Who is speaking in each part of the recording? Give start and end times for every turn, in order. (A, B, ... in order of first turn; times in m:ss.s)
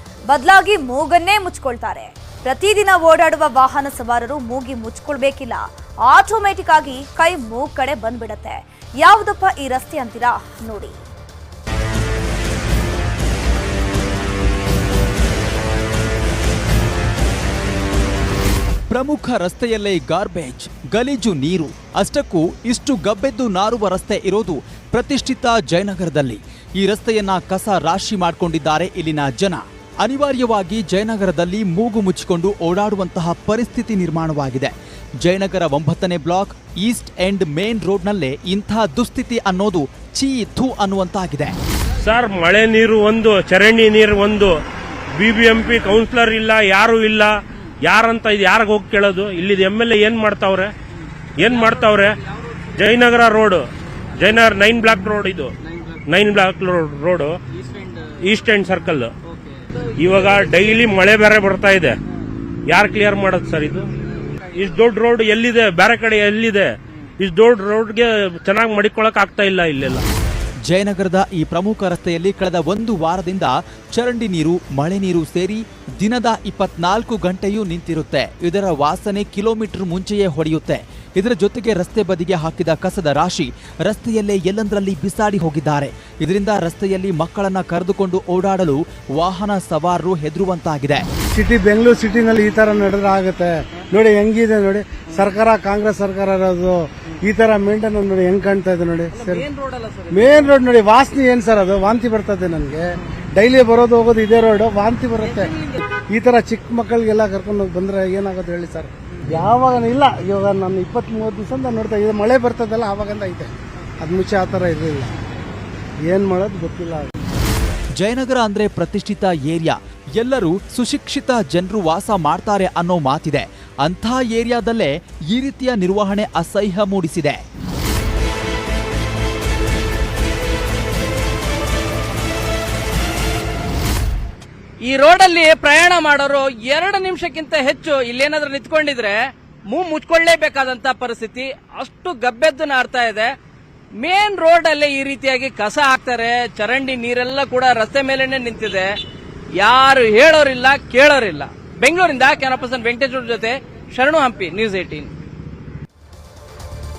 0:00.3-0:11.0 A
0:18.9-0:41.5 B
0:42.0-0:44.6 C
0:45.1-0:50.7 C
0:51.4-0:52.2 C
0:52.7-0:55.5 C
0:56.1-0:57.4 C
0:57.6-0:58.1 D
0:58.2-0:59.1 C
1:00.0-1:02.0 C
1:02.7-1:03.9 C
1:04.5-1:10.0 C
1:10.7-1:31.1 B
1:31.3-1:39.4 E
1:39.1-1:40.6 D
1:40.1-1:55.1 E
1:45.2-1:45.8 D
1:56.0-1:57.1 E
1:58.0-2:07.4 B
2:14.8-2:23.3 D
2:24.0-2:28.9 D
2:29.6-2:35.1 D